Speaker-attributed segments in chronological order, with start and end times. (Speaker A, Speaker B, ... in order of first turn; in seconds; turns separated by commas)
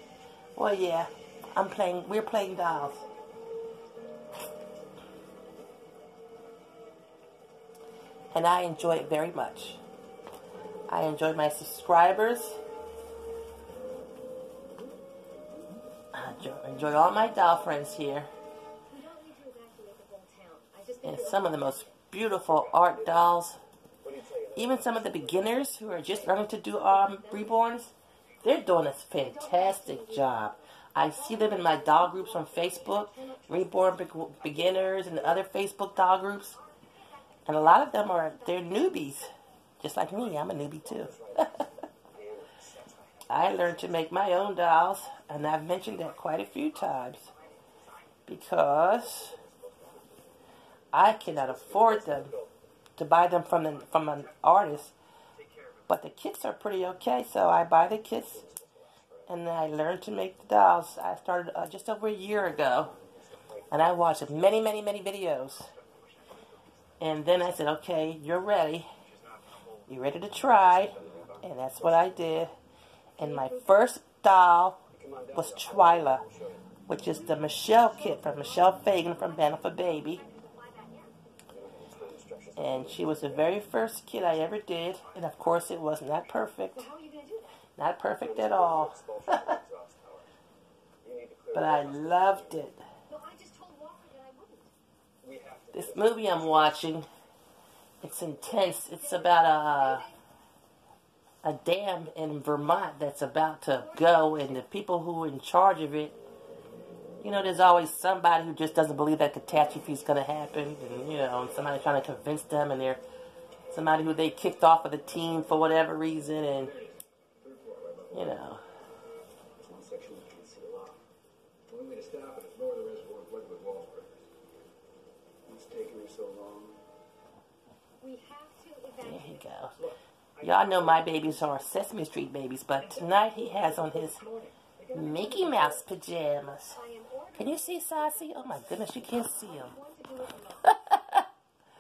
Speaker A: 0.6-3.0, Speaker A: 8.3-9.8, Speaker A: 10.9-12.6, Speaker A: 16.1-18.3, Speaker B: 18.9-22.0, Speaker A: 21.0-23.6, Speaker C: 22.4-23.3, Speaker C: 24.0-26.4, Speaker A: 24.6-36.6, Speaker B: 26.8-27.6, Speaker B: 29.2-34.2, Speaker C: 34.4-35.4, Speaker B: 36.3-39.1, Speaker A: 37.5-41.6, Speaker C: 40.8-44.2, Speaker A: 43.3-47.3, Speaker A: 48.3-49.4, Speaker C: 49.1-50.2, Speaker A: 50.9-52.3, Speaker C: 51.2-52.5, Speaker A: 53.0-55.0, Speaker C: 53.9-54.4, Speaker A: 55.9-58.4, Speaker C: 58.3-59.3, Speaker A: 59.3-62.9, Speaker C: 62.7-64.7, Speaker A: 63.7-65.7, Speaker C: 65.7-66.5, Speaker A: 67.0-68.9, Speaker A: 69.9-72.5, Speaker C: 70.5-72.2, Speaker A: 73.2-76.2, Speaker B: 73.2-73.8, Speaker C: 74.9-76.6, Speaker A: 76.9-80.2, Speaker B: 77.2-81.1, Speaker C: 81.5-83.6, Speaker A: 82.6-86.9, Speaker C: 85.0-85.4, Speaker B: 86.7-87.6, Speaker A: 87.8-89.6, Speaker C: 88.2-90.3, Speaker C: 91.0-92.6, Speaker A: 91.5-92.8, Speaker B: 93.1-94.7, Speaker C: 95.2-96.5, Speaker A: 95.7-97.1, Speaker A: 98.0-100.1, Speaker B: 99.0-100.2, Speaker A: 101.4-106.2, Speaker B: 103.7-104.7, Speaker A: 107.2-113.0, Speaker A: 113.7-116.7, Speaker C: 116.6-118.4, Speaker A: 118.1-118.6, Speaker C: 119.6-121.0, Speaker C: 121.7-124.2, Speaker C: 125.5-126.8, Speaker B: 128.0-129.5, Speaker A: 129.0-129.8, Speaker C: 129.8-131.8, Speaker A: 130.4-134.2, Speaker C: 132.8-135.8, Speaker A: 134.9-136.8, Speaker B: 136.7-140.7, Speaker A: 137.4-139.7, Speaker A: 140.6-141.3